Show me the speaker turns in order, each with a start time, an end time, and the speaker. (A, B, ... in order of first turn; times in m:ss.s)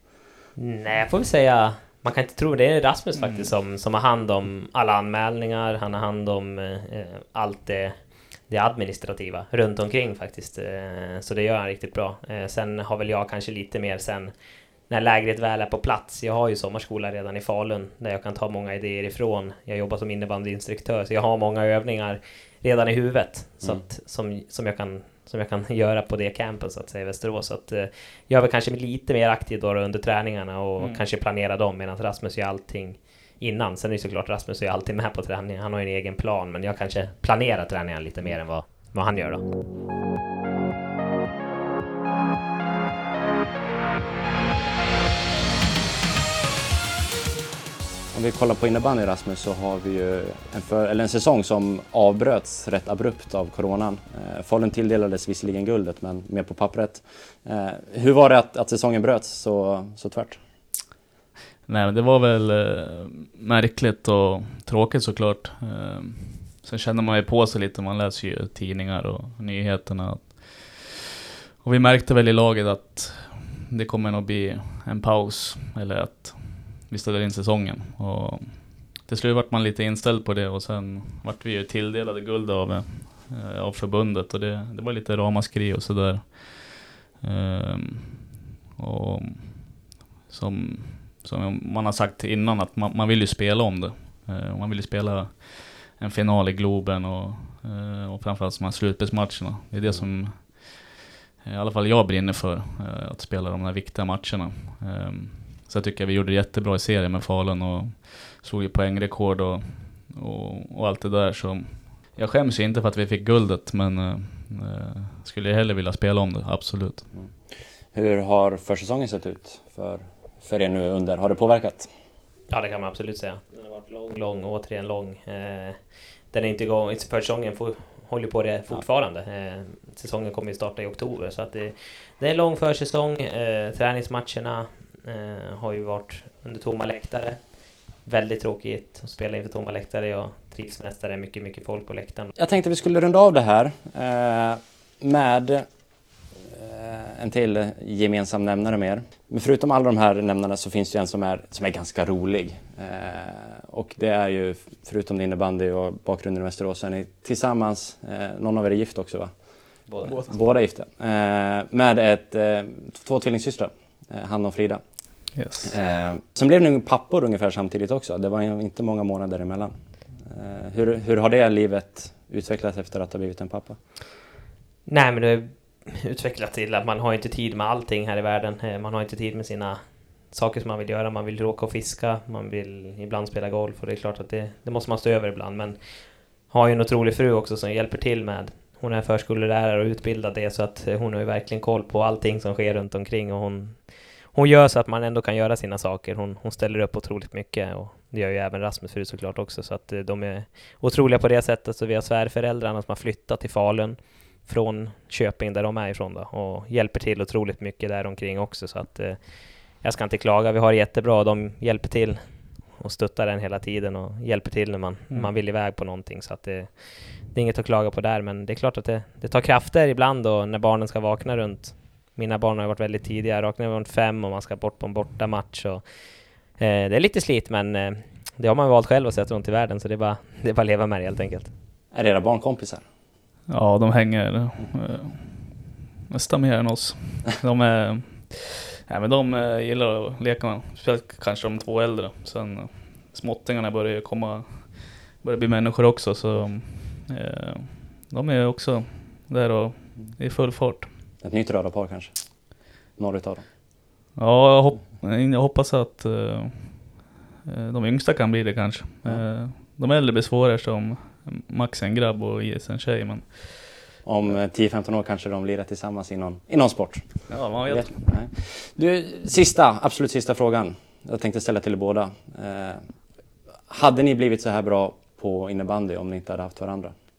0:00.6-0:14.3 A
0:03.2-0:03.5 B
0:14.9-0:39.4 A
0:48.1-1:00.4 C
1:01.7-1:11.1 B
1:11.6-1:57.1 B
1:39.8-1:40.1 C
1:57.9-2:01.9 C
2:02.5-2:05.8 A
2:06.3-2:22.3 A
2:22.4-2:25.6 C
2:26.4-2:39.3 C
2:40.1-2:49.7 C
2:45.4-2:45.7 B
2:50.2-2:53.8 C
2:54.9-3:51.5 A
3:51.9-3:52.8 C
3:53.5-4:10.9 B
4:11.2-4:12.1 C
4:13.0-4:13.4 C
4:14.2-4:23.8 B
4:24.0-4:32.8 C
4:27.3-4:28.2 B
4:33.7-4:36.9 C